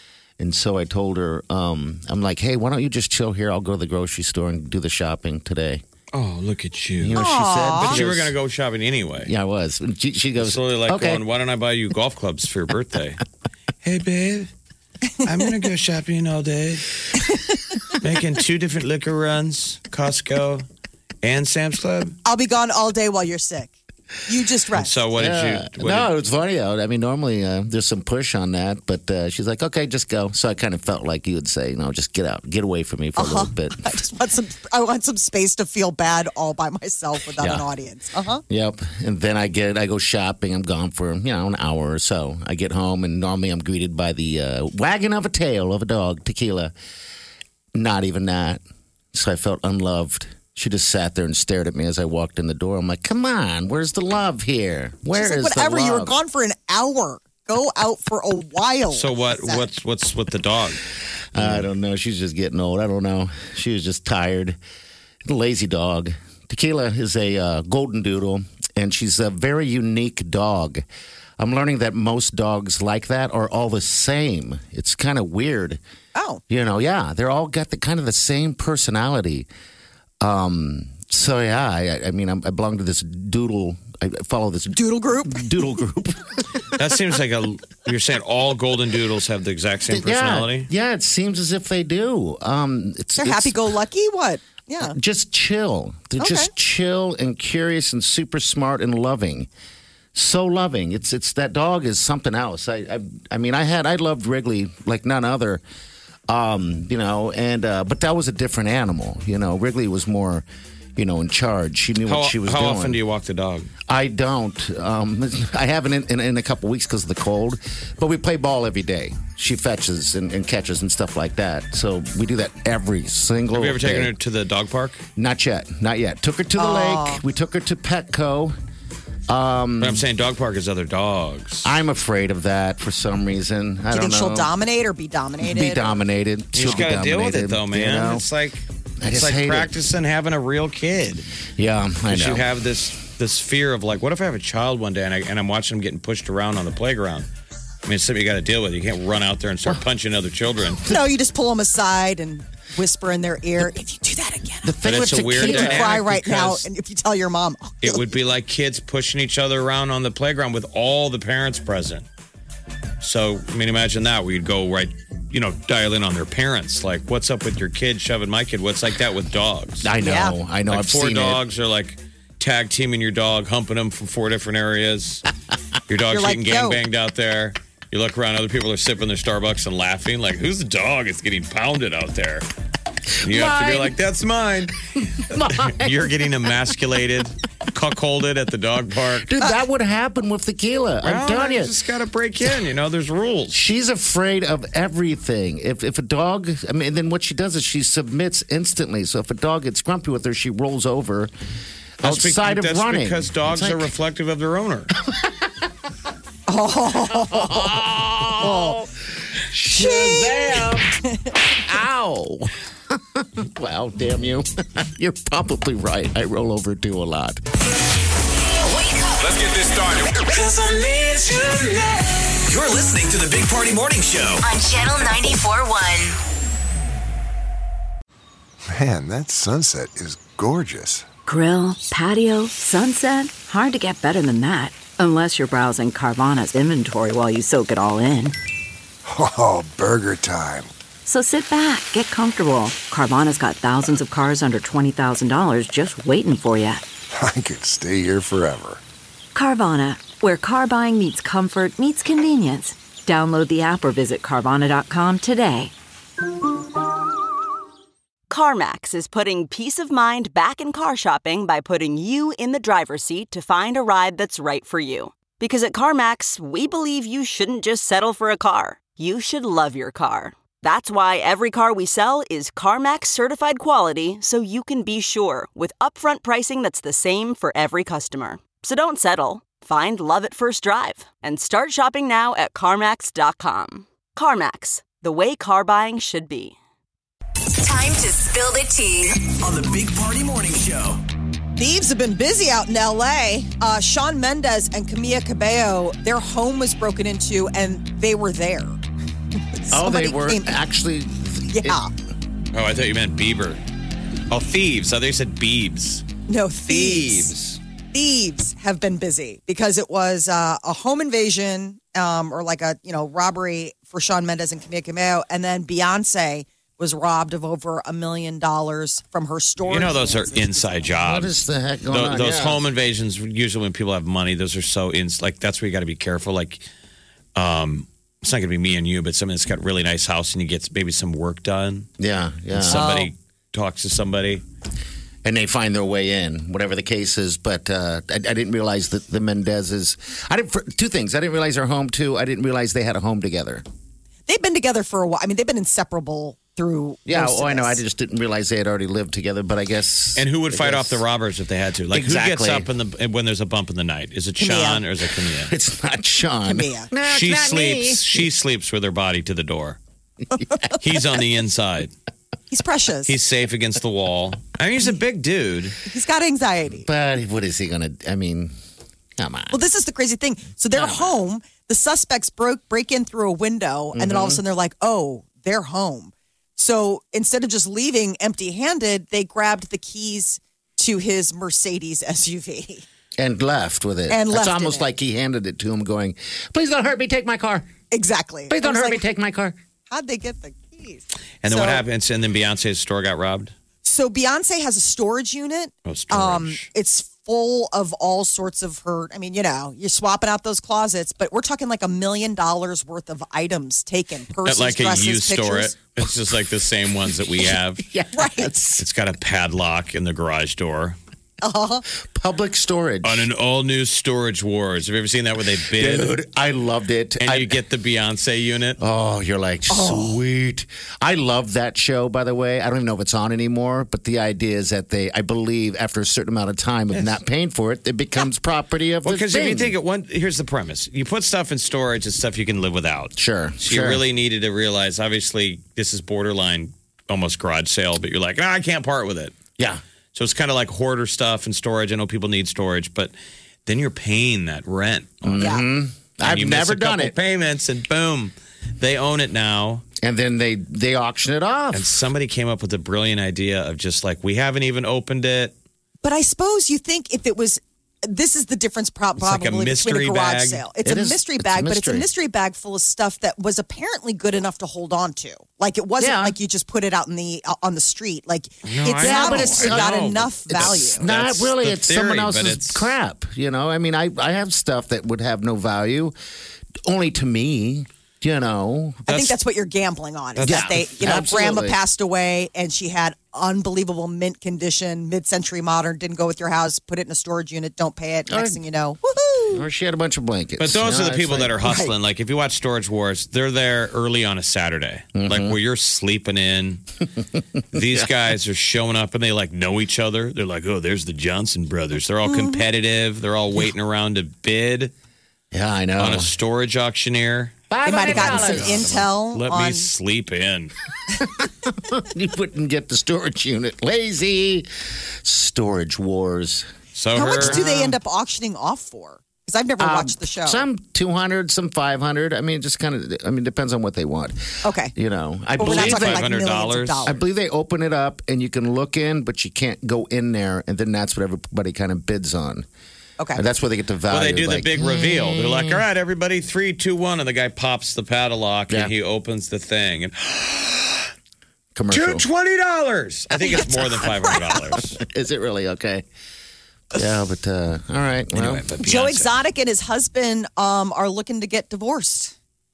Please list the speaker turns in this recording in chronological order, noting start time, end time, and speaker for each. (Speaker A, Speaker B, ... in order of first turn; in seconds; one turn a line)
Speaker A: 0.4-5.8
Speaker B: 6.1-9.3
Speaker A: 7.0-8.4
Speaker C: 7.1-8.0
Speaker A: 9.2-11.2
Speaker B: 10.4-13.2
Speaker B: 13.8-14.5
Speaker B: 15.2-17.2
Speaker C: 17.2-17.9
Speaker B: 18.0-20.6
Speaker B: 21.2-22.1
Speaker C: 22.2-23.7
Speaker C: 24.2-25.0
Speaker B: 24.7-26.1
Speaker A: 25.1-33.8
Speaker C: 33.1-38.4
Speaker A: 37.4-37.6
Speaker A: 38.5-46.7
Speaker A: 47.7-48.6
Speaker A: 49.1-56.2
Speaker C: 55.1-59.7
Speaker B: 58.9-60.8
Speaker A: 61.3-64.6
Speaker B: 61.3-61.7
Speaker A: 65.2-70.8
Speaker A: 71.4-75.8
Speaker C: 76.1-76.4
Speaker A: 76.5-79.5
Speaker A: 80.2-86.4
Speaker C: 84.7-85.6
Speaker B: 86.7-90.7
Speaker A: 89.9-93.7
Speaker C: 93.2-95.0
Speaker A: 94.8-99.5
Speaker C: 96.2-96.5
Speaker A: 100.1-105.6
Speaker A: 106.3-110.4
Speaker A: 111.0-113.0
Speaker B: 112.0-113.7
Speaker A: 113.9-124.1
Speaker B: 123.5-125.0
Speaker A: 125.2-128.5
Speaker C: 126.5-127.2
Speaker A: 129.3-130.1
Speaker B: 129.8-131.7
Speaker A: 131.6-134.5
Speaker C: 133.9-136.0
Speaker A: 135.4-138.2
Speaker B: 136.5-141.3
Speaker A: 139.0-139.7
Speaker A: 141.6-142.5
Speaker B: 142.1-147.3
Speaker B: 147.8-150.8
Speaker C: 150.8-158.1
Speaker A: 154.6-155.9
Speaker B: 154.8-156.7
Speaker B: 157.8-162.0
Speaker B: 163.0-169.9
Speaker A: 169.8-171.4
Speaker C: 170.0-170.3
Speaker B: 170.7-175.2
Speaker B: 175.9-182.5
Speaker C: 176.1-176.8
Speaker A: 183.2-183.9
Speaker B: 183.2-184.8
Speaker A: 185.1-186.1
Speaker B: 185.3-189.3
Speaker A: 189.2-191.7
Speaker C: 189.4-189.6
Speaker B: 191.0-193.6
Speaker A: 193.5-201.3
Speaker A: 202.0-203.9
Speaker B: 202.0-204.9
Speaker A: 205.1-205.6
Speaker C: 206.5-208.8
Speaker A: 207.1-208.9
Speaker A: 209.4-210.9
Speaker C: 209.7-210.7
Speaker A: 211.6-217.4
Speaker D: 218.6-219.3
Speaker E: 219.3-224.5
Speaker D: 224.4-226.1
Speaker F: 228.7-231.1
Speaker G: 231.2-238.3
Speaker F: 239.0-240.7
Speaker G: 241.0-246.8
Speaker F: 247.1-248.8
Speaker G: 249.3-255.7
Speaker H: 258.3-286.6
Speaker D: 287.6-289.1
Speaker E: 289.4-291.0
Speaker C: 291.6-298.8
Speaker C: 299.5-300.6
Speaker A: 299.7-301.8
Speaker C: 301.5-301.9
Speaker B: 302.5-303.6
Speaker B: 304.3-306.0
Speaker C: 306.3-307.3
Speaker B: 306.7-307.6
Speaker C: 307.9-321.0
Speaker B: 319.6-326.6
Speaker A: 321.0-322.6
Speaker B: 327.4-331.9
Speaker A: 332.0-332.9
Speaker B: 332.5-334.4
Speaker C: 332.7-333.1
Speaker A: 335.2-343.6
Speaker C: 344.3-347.8
Speaker A: 347.1-351.0
Speaker B: 350.1-355.5
Speaker A: 351.9-352.7
Speaker C: 354.4-354.8
Speaker A: 355.3-358.2
Speaker C: 356.4-356.9
Speaker B: 357.1-359.8
Speaker B: 360.8-361.9
Speaker C: 362.5-363.1
Speaker B: 363.0-365.8
Speaker C: 365.9-366.9
Speaker A: 366.7-368.5
Speaker A: 369.2-369.6
Speaker C: 369.5-382.8
Speaker A: 370.7-371.1
Speaker A: 373.9-374.4
Speaker A: 383.2-387.7
Speaker C: 384.1-384.9
Speaker C: 387.9-389.0
Speaker A: 388.5-389.6
Speaker C: 389.9-391.8
Speaker B: 391.4-393.5
Speaker C: 393.8-405.7
Speaker B: 395.9-396.7
Speaker B: 404.4-407.9
Speaker A: 407.8-408.9
Speaker C: 408.1-408.5
Speaker B: 408.8-411.0
Speaker C: 411.4-411.8
Speaker A: 412.1-413.3
Speaker B: 413.0-416.2
Speaker A: 415.7-417.5
Speaker B: 417.2-418.8
Speaker A: 418.8-429.7
Speaker C: 419.7-420.2
Speaker B: 429.0-439.3
Speaker A: 433.2-434.0
Speaker B: 440.1-443.1
Speaker B: 443.6-445.6
Speaker A: 445.2-447.1
Speaker C: 445.4-445.7
Speaker B: 446.2-449.8
Speaker A: 450.0-451.9
Speaker B: 451.7-455.5
Speaker C: 456.0-471.0
Speaker B: 459.2-460.7
Speaker A: 460.8-462.1
Speaker A: 466.0-466.4
Speaker B: 468.6-472.9
Speaker A: 468.9-476.1
Speaker A: 476.9-479.1
Speaker C: 479.1-489.6
Speaker B: 479.1-479.4
Speaker B: 480.3-480.9
Speaker A: 480.4-481.8
Speaker A: 488.3-488.6
Speaker A: 489.5-491.6
Speaker B: 490.6-496.9
Speaker C: 491.6-491.9
Speaker A: 495.1-495.6
Speaker A: 497.2-498.1
Speaker B: 497.7-504.9
Speaker C: 502.2-502.7
Speaker A: 505.5-506.3
Speaker B: 506.0-510.7
Speaker A: 507.7-509.0
Speaker C: 507.8-509.9
Speaker A: 511.1-514.7
Speaker A: 515.2-516.7
Speaker B: 516.9-517.7
Speaker C: 517.1-520.7
Speaker A: 517.3-517.9
Speaker A: 519.8-526.2
Speaker C: 524.6-524.9
Speaker C: 525.6-527.2
Speaker B: 525.6-527.1
Speaker A: 527.0-532.6
Speaker C: 533.2-533.4
Speaker A: 533.3-535.8
Speaker B: 534.1-541.1
Speaker A: 541.7-542.2
Speaker B: 541.9-545.0
Speaker C: 543.4-544.8
Speaker A: 545.0-546.0
Speaker A: 546.9-548.7
Speaker B: 548.3-549.3
Speaker C: 548.8-552.3